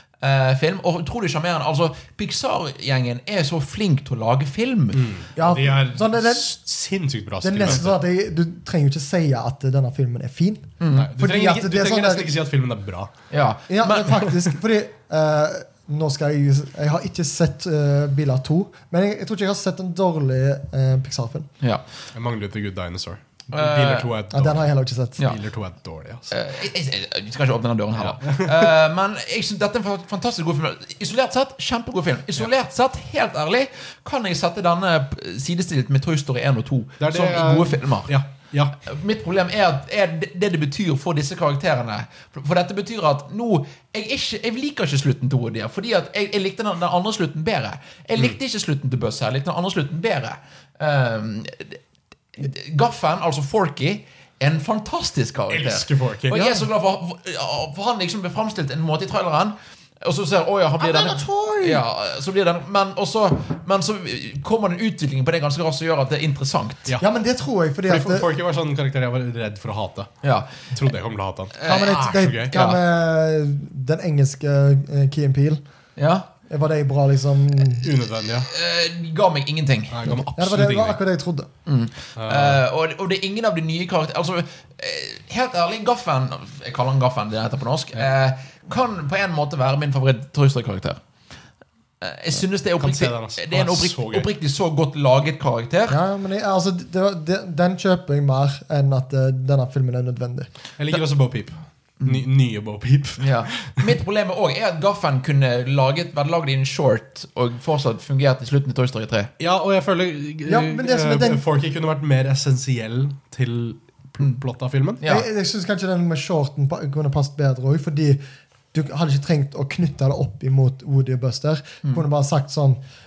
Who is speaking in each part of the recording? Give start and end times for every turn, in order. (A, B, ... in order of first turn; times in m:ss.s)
0:00.2-0:05.0 A
0:04.9-0:08.0 B
0:05.4-0:06.5 C
0:07.4-0:12.3 C
0:10.8-0:11.1 A
0:11.0-0:13.1 B
0:13.3-0:14.3 A
0:13.7-0:21.5 C
0:22.1-0:24.7 B
0:23.5-0:24.1 A
0:24.3-0:25.2 C
0:25.2-0:26.3 B
0:26.3-0:38.2 A
0:28.0-0:28.7 B
0:37.0-0:38.8 B
0:38.8-0:51.8 A
0:52.4-1:06.9 A
0:55.5-0:56.6 B
1:00.8-1:01.8 C
1:07.0-1:08.3 C
1:07.9-1:12.5 B
1:10.2-1:10.6 A
1:11.6-1:12.8 A
1:11.7-1:15.6 C
1:16.0-1:16.3 A
1:16.5-1:17.9 C
1:17.8-1:18.5 B
1:18.4-1:20.2 A
1:19.9-1:21.0 B
1:20.3-1:21.5 C
1:21.7-1:31.0 A
1:22.2-1:22.6 B
1:32.0-1:36.0 A
1:32.8-1:34.3 B
1:35.9-1:40.5 C
1:40.8-1:43.9 B
1:43.2-1:49.3 A
1:49.4-1:55.0 B
1:50.5-1:51.4 C
1:55.0-1:55.3 A
1:55.0-1:58.2 C
1:58.7-2:02.8 C